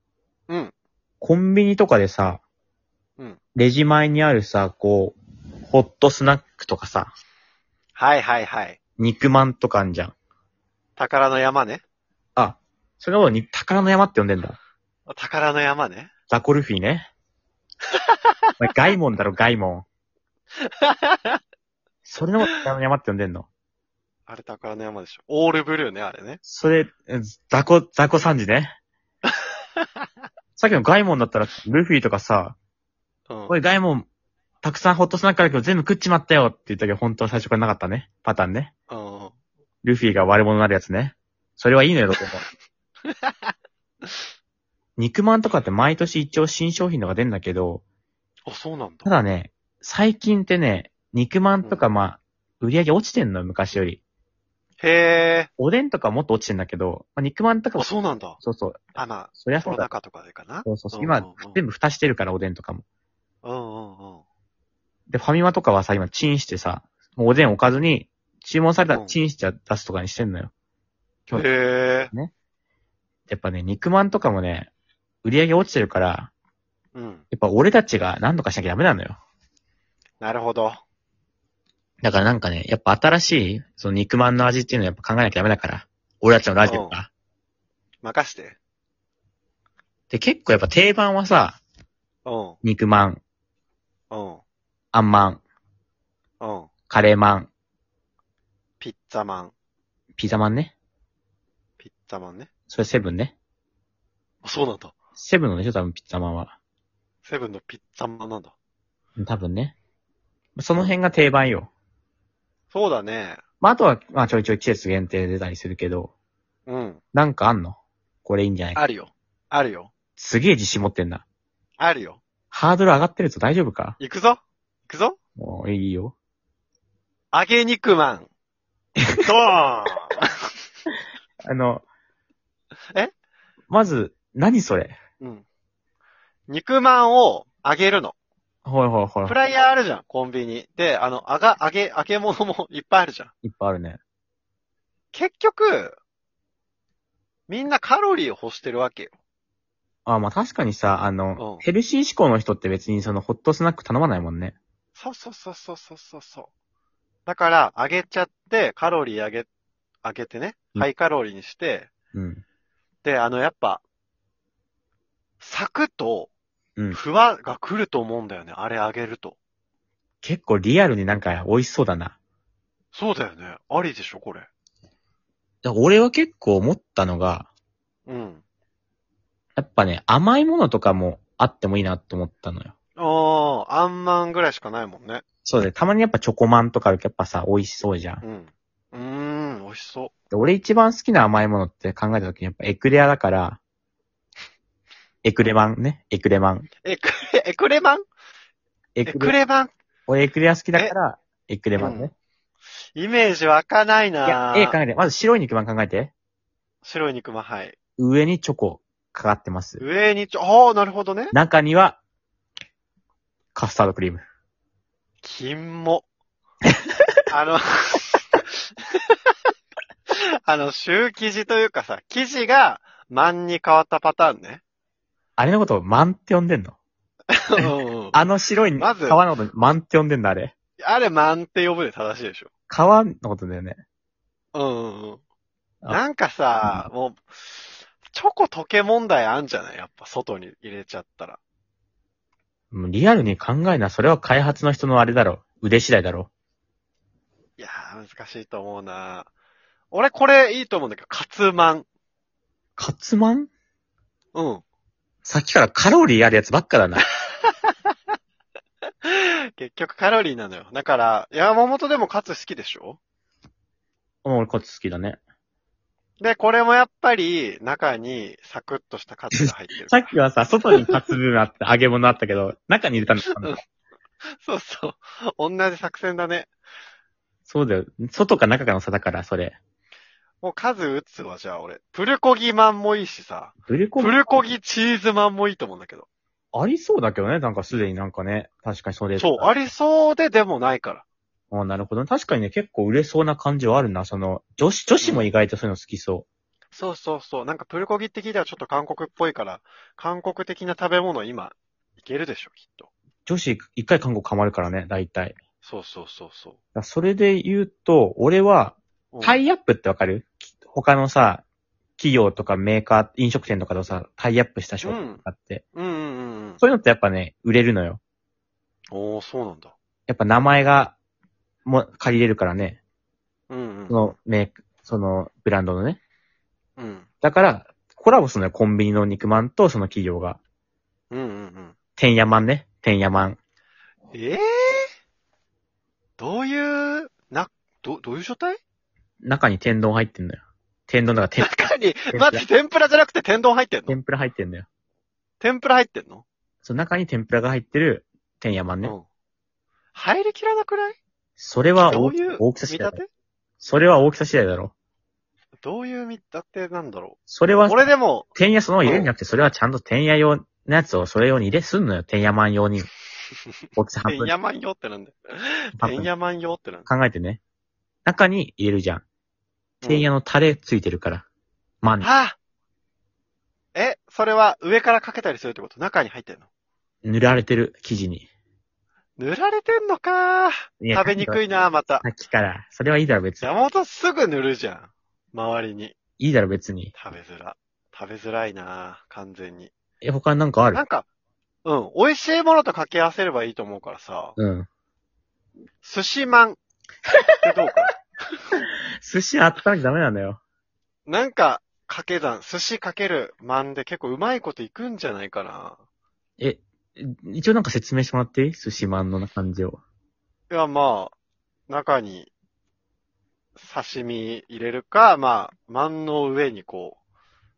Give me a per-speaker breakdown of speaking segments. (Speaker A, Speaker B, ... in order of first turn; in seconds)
Speaker A: 0.5-0.7, 8.0-8.8, 11.0-11.8, 15.1-16.1, 17.9-18.5, 20.6-21.4, 24.3-26.4, 29.3-30.0, 33.3-33.5, 38.9-39.3, 43.0-43.5, 48.5-49.1, 54.8-55.5, 57.8-58.4, 59.0-61.6, 63.4-64.2, 68.9-69.2, 71.3-72.1, 76.9-77.2, 80.2-80.8, 86.6-87.0, 88.0-88.6, 92.2-92.6, 94.1-94.4, 96.4-96.7, 98.8-99.5, 101.8-102.5, 104.4-104.9, 107.2-108.5, 112.7-113.4, 116.7-117.0, 118.7-119.9, 121.8-122.2, 124.0-125.2, 127.3-128.3, 129.2-130.2, 136.5-138.1, 139.2-143.3, 145.1-146.0, 147.5-149.1, 151.4-151.6, 154.9-156.5, 157.3-159.5, 160.0-161.9, 163.0-163.8, 165.4-166.3, 166.9-169.4, 172.9-174.5, 178.1-178.4, 183.0-185.2, 188.2-190.1, 196.8-198.0, 199.1-199.7, 201.8-202.1, 202.9-204.8, 206.8-207.8, 209.8-211.3, 215.2-216.1, 217.3-219.3, 220.1-224.6, 227.3-228.2, 228.8-229.2, 230.8-232.5, 234.5-235.2, 235.9-241.4, 247.6-249.3, 249.9-251.9, 254.3-254.6, 257.4-257.9, 259.0-263.0, 266.2-270.1, 270.7-271.0, 273.2-273.6, 274.4-276.5, 280.4-286.1, 289.1-291.0, 295.0-295.3, 296.7-302.9, 305.6-306.6, 309.1-309.4, 314.8-316.6, 318.9-319.7, 323.5-324.1, 326.8-327.1, 331.1-331.8, 334.1-334.9, 336.2-338.6, 341.4-344.0, 345.4-346.2, 349.9-351.0, 351.8-353.1, 355.6-358.3, 358.8-359.1, 364.1-366.9, 369.8-370.1, 372.0-372.4, 373.7-376.5, 379.2-382.0, 383.4-385.9, 386.9-389.7, 390.7-391.1, 391.6-394.4, 395.8-396.6, 397.4-398.0, 401.1-405.8, 410.5-411.1, 411.7-412.3, 413.6-417.0
Speaker B: 1.2-2.4, 3.5-7.1, 9.0-10.1, 12.3-14.6, 16.3-17.1, 18.6-19.9, 22.0-23.5, 26.4-28.7, 30.6-32.5, 33.5-34.1, 34.6-38.7, 39.8-42.4, 45.0-47.8, 49.0-54.0, 55.6-57.9, 58.4-59.9, 60.6-62.8, 65.1-70.5, 73.3-74.7, 75.2-76.3, 77.3-79.2, 82.0-87.1, 90.1-91.6, 92.6-93.2, 94.9-95.4, 96.9-97.5, 100.2-100.7, 102.7-103.3, 105.2-106.5, 109.2-109.7, 110.5-111.7, 113.6-116.1, 117.1-118.8, 120.2-121.2, 122.5-124.0, 125.4-126.1, 131.4-131.8, 133.7-135.0, 138.7-139.3, 143.4-144.0, 150.1-154.6, 162.1-162.4, 170.2-172.2, 175.6-177.5, 179.6-182.7, 185.4-188.2, 190.3-193.6, 195.2-196.7, 198.9-199.3, 200.1-202.1, 204.2-206.1, 208.0-209.8, 211.3-212.0, 213.5-214.2, 225.4-226.8, 227.6-230.5, 232.7-233.8, 242.7-246.3, 252.8-253.5, 255.2-257.0, 264.2-265.2, 269.3-273.5, 277.5-279.6, 283.6-284.5, 286.5-289.6, 291.5-296.2, 303.2-305.4, 306.7-311.4, 312.0-315.6, 316.6-318.0, 320.1-320.9, 321.6-322.8, 323.9-326.0, 327.2-330.4, 331.9-333.4, 339.2-341.6, 342.1-342.4, 343.9-344.7, 346.6-348.9, 351.4-353.0, 353.6-354.7, 357.3-362.9, 363.8-364.3, 365.8-366.1, 366.9-367.4, 368.1-369.0, 369.9-371.2, 371.8-372.1, 377.0-378.3, 380.8-381.4, 382.0-383.5, 386.2-386.9, 390.0-390.8, 394.4-394.7, 397.1-397.4, 399.0-400.4, 406.4-409.8